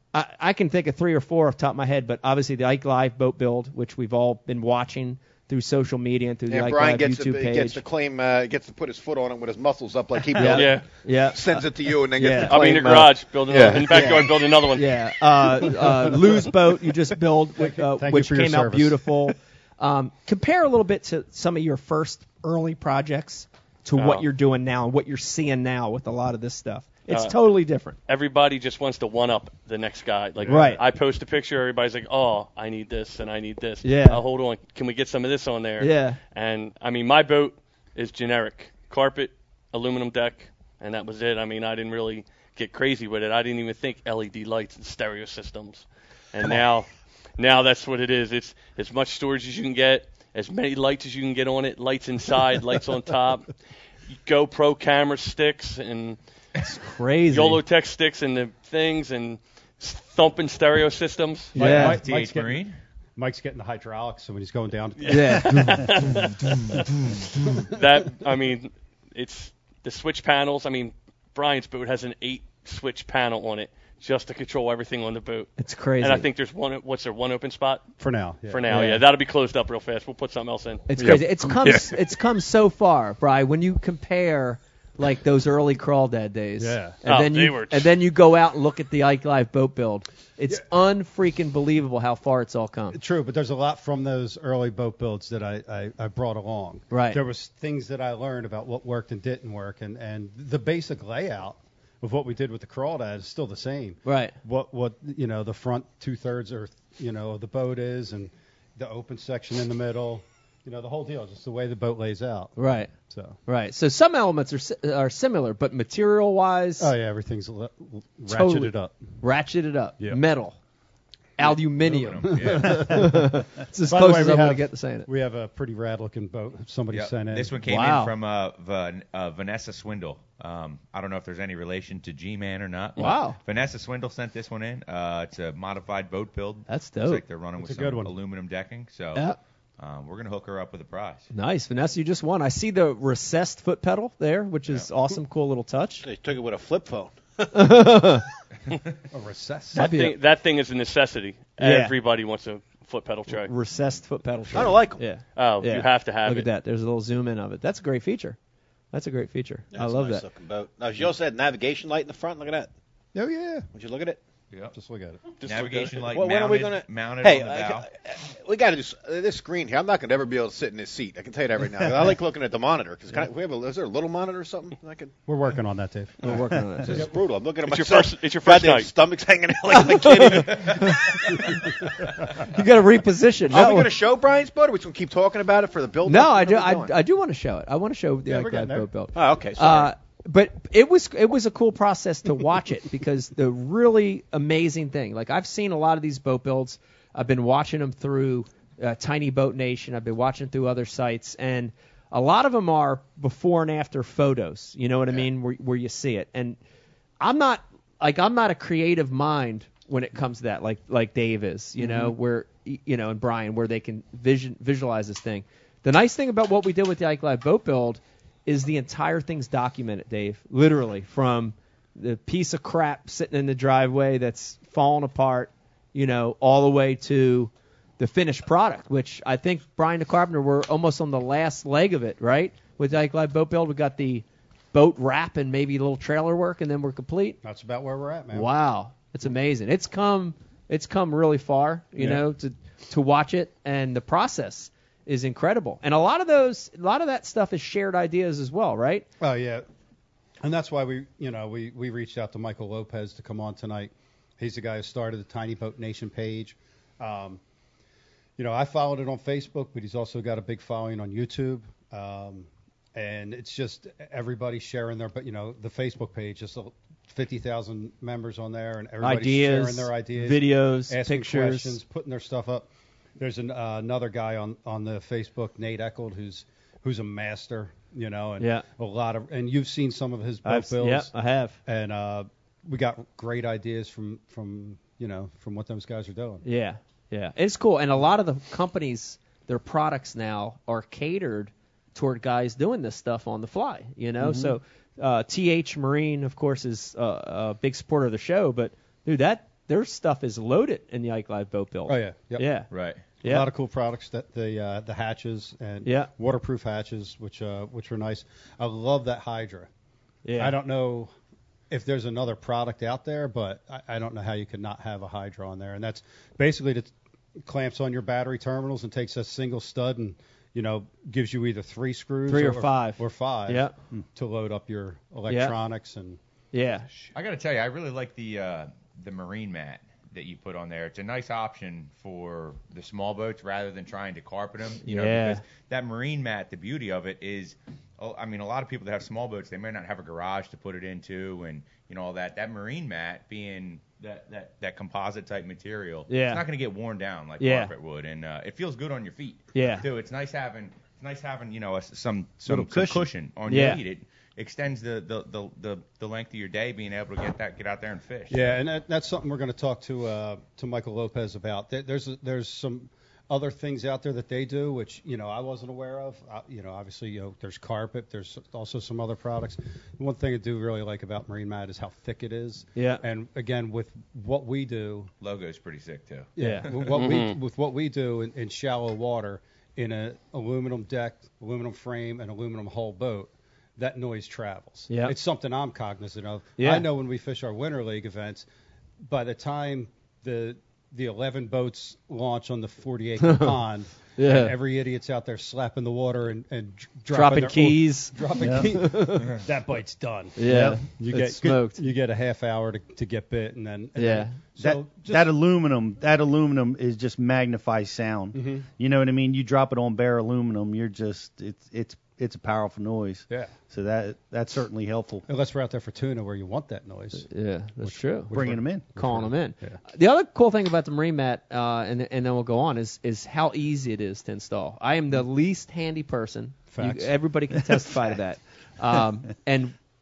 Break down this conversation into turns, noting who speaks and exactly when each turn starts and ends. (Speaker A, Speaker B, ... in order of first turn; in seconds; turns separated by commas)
Speaker A: 0.1-7.8, Speaker B: 6.5-10.8, Speaker A: 10.3-11.6, Speaker C: 10.5-10.9, Speaker B: 11.3-14.3, Speaker A: 12.2-12.8, Speaker C: 12.4-14.9, Speaker A: 13.6-28.0, Speaker D: 17.6-19.1, Speaker C: 23.9-24.2, Speaker C: 27.1-27.4, Speaker C: 28.1-53.5, Speaker A: 30.4-30.8, Speaker D: 30.4-30.7, Speaker A: 33.8-34.2, Speaker A: 35.8-36.2, Speaker C: 54.1-56.2, Speaker A: 56.7-57.6, Speaker C: 57.3-61.6, Speaker A: 61.5-62.0, Speaker D: 61.5-66.0, Speaker E: 61.6-62.8, Speaker A: 65.0-65.8, Speaker C: 65.2-66.8, Speaker C: 67.7-77.8, Speaker A: 75.6-76.3, Speaker D: 78.0-78.8, Speaker C: 78.5-81.8, Speaker A: 78.7-79.0, Speaker A: 80.9-93.0, Speaker D: 86.6-87.0, Speaker C: 87.0-87.9, Speaker D: 92.9-113.4, Speaker A: 96.9-97.2, Speaker A: 104.0-104.3, Speaker A: 112.5-112.9, Speaker A: 113.5-116.9, Speaker D: 116.8-119.0, Speaker A: 118.3-120.5, Speaker A: 121.4-125.1, Speaker E: 121.4-123.1, Speaker D: 121.9-127.5, Speaker E: 126.9-141.2, Speaker A: 127.7-128.1, Speaker A: 133.0-133.4, Speaker A: 136.7-137.2, Speaker D: 137.6-138.1, Speaker A: 141.3-146.0, Speaker B: 146.0-147.5, Speaker A: 147.5-148.2, Speaker D: 149.1-149.9, Speaker A: 149.7-150.1, Speaker C: 149.7-153.5, Speaker A: 151.6-151.9, Speaker A: 153.3-158.4, Speaker B: 154.5-155.0, Speaker C: 155.2-156.5, Speaker A: 158.9-160.2, Speaker B: 159.7-162.7, Speaker D: 163.1-163.7, Speaker B: 163.7-164.2, Speaker D: 164.7-165.2, Speaker B: 165.4-175.1, Speaker E: 165.4-167.9, Speaker D: 175.2-177.1, Speaker A: 176.2-177.1, Speaker B: 176.9-181.1, Speaker C: 177.6-178.9, Speaker A: 179.7-180.9, Speaker A: 182.5-183.9, Speaker B: 183.5-186.9, Speaker A: 186.1-206.6, Speaker D: 188.3-188.9, Speaker B: 189.1-189.9, Speaker A: 207.2-237.4, Speaker D: 237.4-238.5, Speaker A: 238.3-249.1, Speaker D: 242.0-242.2, Speaker D: 249.2-249.6, Speaker D: 250.4-257.4, Speaker D: 258.4-272.6, Speaker A: 269.0-271.8, Speaker D: 273.2-281.1, Speaker A: 278.4-278.6, Speaker A: 280.4-281.6, Speaker D: 281.6-286.4, Speaker A: 286.4-302.7, Speaker F: 294.2-294.6, Speaker D: 301.9-302.5, Speaker E: 302.7-303.1, Speaker D: 303.2-309.7, Speaker A: 303.2-303.5, Speaker A: 305.8-306.1, Speaker A: 310.2-310.5, Speaker D: 310.3-311.1, Speaker D: 311.7-316.9, Speaker D: 317.4-326.2, Speaker A: 322.3-323.7, Speaker A: 325.3-325.5, Speaker A: 326.5-326.9, Speaker E: 327.0-358.6, Speaker A: 334.8-335.4, Speaker A: 346.1-346.4, Speaker A: 347.4-347.7, Speaker A: 349.5-349.9, Speaker F: 352.4-353.1, Speaker A: 353.5-353.8, Speaker D: 358.3-375.1, Speaker A: 372.8-373.0, Speaker E: 375.2-377.1, Speaker D: 376.4-388.4, Speaker A: 376.4-376.7, Speaker C: 376.9-377.4, Speaker A: 384.9-385.1, Speaker A: 386.6-386.9, Speaker D: 389.0-405.3, Speaker A: 393.2-393.6, Speaker A: 394.1-394.5, Speaker A: 397.1-399.3, Speaker F: 398.4-398.7, Speaker A: 400.4-401.8, Speaker F: 400.4-400.8, Speaker A: 404.0-404.4, Speaker F: 404.6-415.2, Speaker D: 408.3-408.6, Speaker D: 415.3-417.3, Speaker A: 417.3-418.3, Speaker D: 417.8-419.8, Speaker F: 418.3-419.0, Speaker A: 418.9-429.7, Speaker D: 426.7-427.1